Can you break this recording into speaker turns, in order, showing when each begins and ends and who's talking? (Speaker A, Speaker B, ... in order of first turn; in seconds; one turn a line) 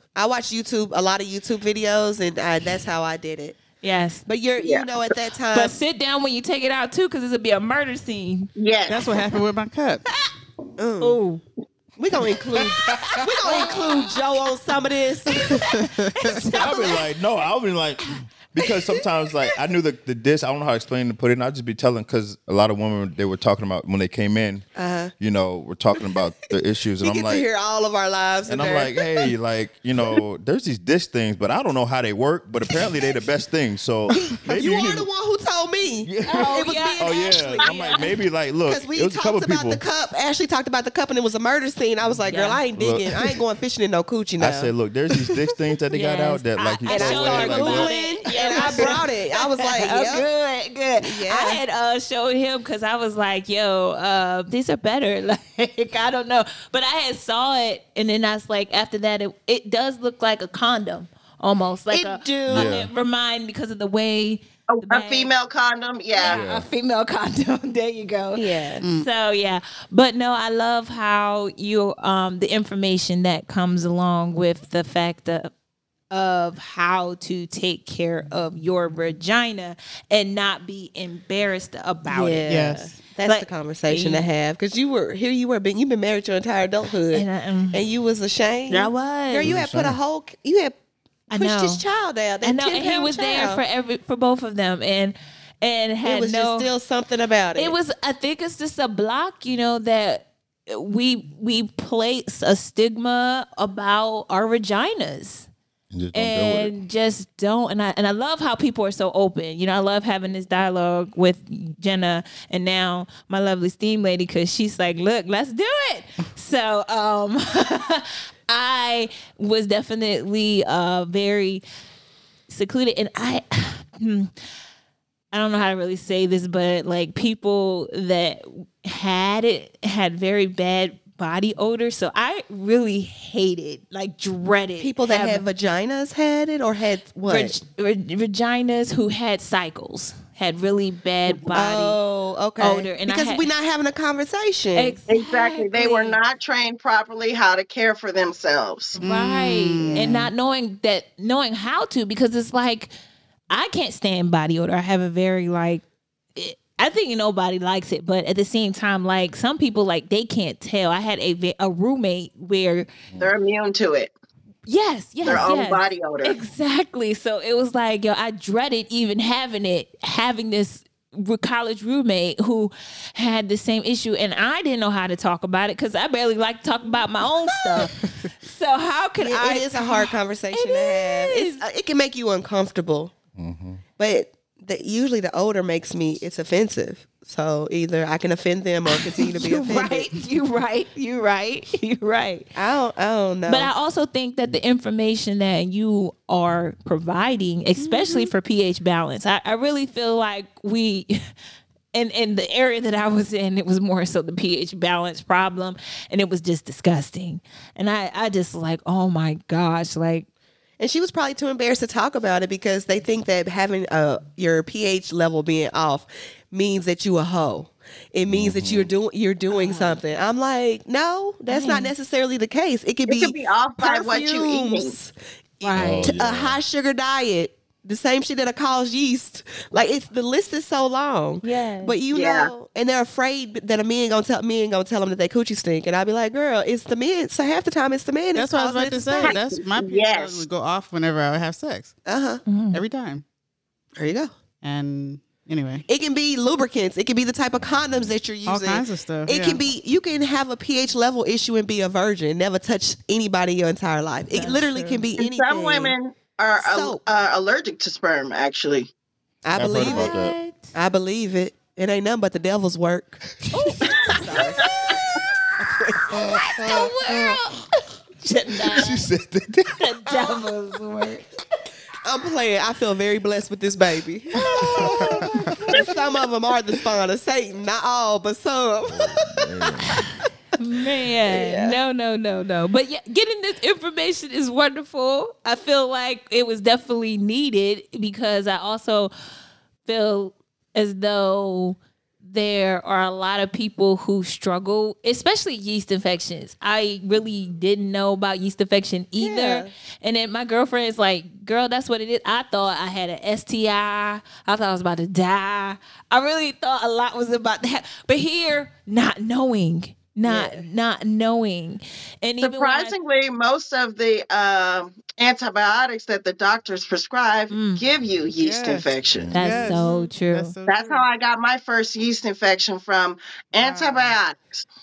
Speaker A: 0.1-3.6
Speaker B: 3.8-4.2
Speaker A: 4.2-5.8
Speaker C: 4.6-4.9
Speaker B: 5.5-8.5
Speaker C: 8.6-9.3
Speaker D: 8.9-10.0
Speaker A: 10.8-11.2
Speaker B: 11.0-11.4
Speaker A: 12.0-15.7
Speaker B: 13.0-14.1
Speaker B: 15.3-17.1
Speaker D: 15.7-16.4
Speaker E: 16.5-24.6
Speaker A: 24.8-25.1
Speaker E: 25.2-27.4
Speaker A: 27.0-29.1
Speaker E: 28.5-35.1
Speaker A: 34.1-38.0
Speaker E: 36.0-39.8
Speaker B: 36.2-38.0
Speaker A: 38.6-44.7
Speaker B: 42.3-42.6
Speaker E: 42.8-43.1
Speaker E: 44.4-47.9
Speaker B: 45.9-65.3
Speaker A: 46.9-50.2
Speaker A: 51.0-51.6
Speaker A: 61.9-62.8
Speaker E: 62.5-62.9
Speaker C: 64.7-66.4
Speaker B: 66.1-75.5
Speaker E: 66.2-66.7
Speaker A: 68.3-68.8
Speaker D: 68.8-69.1
Speaker B: 76.1-82.5
Speaker A: 82.0-90.8
Speaker D: 82.5-83.0
Speaker B: 83.2-84.3
Speaker B: 87.1-87.8
Speaker B: 88.7-89.5
Speaker E: 89.4-90.0
Speaker B: 91.3-91.8
Speaker A: 91.3-93.6
Speaker B: 92.4-96.7
Speaker A: 96.0-97.7
Speaker B: 97.5-105.5
Speaker E: 105.9-106.7
Speaker B: 106.1-121.6
Speaker B: 122.5-124.3
Speaker B: 125.3-135.4
Speaker A: 134.8-137.5
Speaker B: 137.3-142.0
Speaker A: 141.5-145.0
Speaker B: 142.6-143.5
Speaker B: 144.8-146.2
Speaker C: 145.1-149.0
Speaker B: 148.9-152.9
Speaker D: 149.0-150.3
Speaker B: 153.5-155.8
Speaker B: 156.3-162.9
Speaker C: 163.2-164.1
Speaker B: 164.7-181.6
Speaker E: 165.2-165.5
Speaker C: 165.2-166.3
Speaker A: 179.2-183.1
Speaker E: 183.3-183.8
Speaker A: 184.0-190.1
Speaker B: 188.9-192.5
Speaker A: 192.5-193.7
Speaker B: 193.5-201.2
Speaker A: 197.8-198.3
Speaker B: 201.9-210.2
Speaker A: 210.8-239.4
Speaker E: 218.3-218.9
Speaker B: 219.5-220.0
Speaker B: 221.5-221.9
Speaker C: 223.1-224.9
Speaker B: 225.6-226.1
Speaker E: 225.7-226.6
Speaker B: 231.4-231.9
Speaker C: 232.1-232.5
Speaker D: 238.3-242.0
Speaker C: 239.2-240.4
Speaker A: 242.1-242.4
Speaker B: 242.4-242.8
Speaker D: 242.7-243.2
Speaker A: 244.0-244.3
Speaker D: 244.6-245.8
Speaker A: 245.9-255.9
Speaker D: 248.4-249.6
Speaker B: 254.3-255.0
Speaker C: 255.2-258.9
Speaker A: 256.6-257.0
Speaker A: 259.4-260.2
Speaker E: 259.5-260.3
Speaker B: 259.6-260.7
Speaker A: 260.7-263.2
Speaker B: 263.5-265.2
Speaker A: 263.8-264.7
Speaker A: 265.6-266.9
Speaker E: 266.1-266.7
Speaker B: 266.1-267.7
Speaker B: 268.2-269.1
Speaker E: 268.7-269.8
Speaker B: 269.8-271.2
Speaker A: 272.0-280.0
Speaker E: 274.6-275.3
Speaker B: 274.6-275.9
Speaker D: 274.9-275.5
Speaker E: 278.9-280.0
Speaker B: 280.6-289.1
Speaker A: 281.2-281.8
Speaker B: 289.9-312.9
Speaker A: 299.2-299.7
Speaker A: 310.2-310.6
Speaker C: 312.4-319.8
Speaker B: 317.5-317.8
Speaker D: 318.4-321.1
Speaker E: 319.0-319.6
Speaker B: 319.3-320.6
Speaker C: 320.7-324.6
Speaker D: 323.6-324.1